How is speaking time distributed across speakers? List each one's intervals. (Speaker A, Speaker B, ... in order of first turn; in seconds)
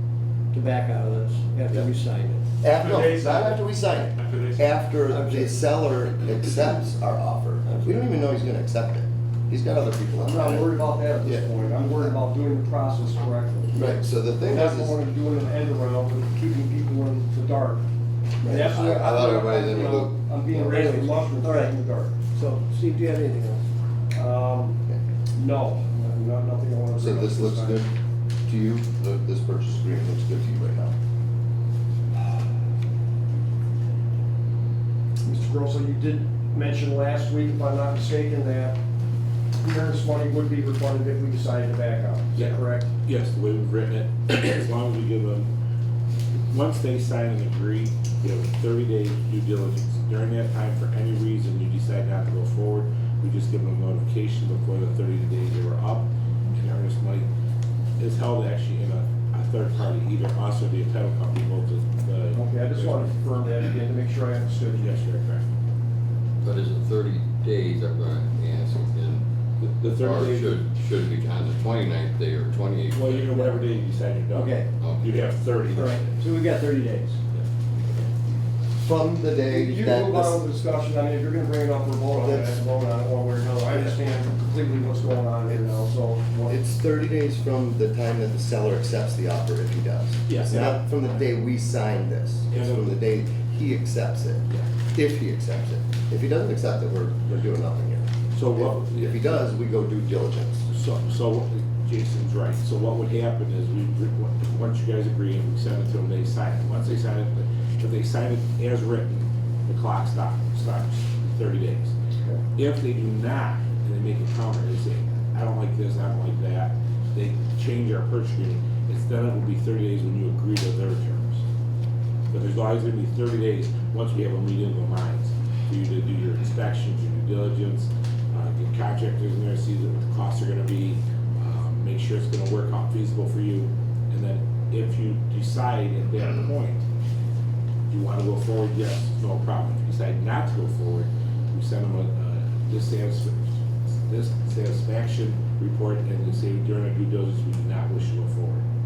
Speaker A: 0.5-2.5, 5.1-5.5, 18.4-18.8, 20.7-21.7, 22.3-23.6, 74.3-74.7, 75.8-77.2
Speaker B: 2.6-11.5, 13.7-15.0, 18.7-20.8, 27.0-27.9, 28.5-31.0, 78.8-80.4, 82.1-82.6, 86.5-100.7
Speaker C: 10.2-13.8, 14.5-17.8, 18.4-22.2, 24.1-24.8, 25.4-27.8, 35.2-38.8, 39.6-42.9, 62.3-64.9, 79.5-86.6
Speaker D: 42.4-45.5, 46.5-57.3, 58.0-63.1, 64.8-65.5, 69.6-70.5, 72.9-76.2, 77.3-78.1, 90.3-91.2, 92.5-93.0, 98.3-99.5, 100.7-111.9, 112.6-121.4, 122.3-136.8, 137.9-148.6
Speaker E: 66.4-69.3, 70.0-73.4, 74.8-75.3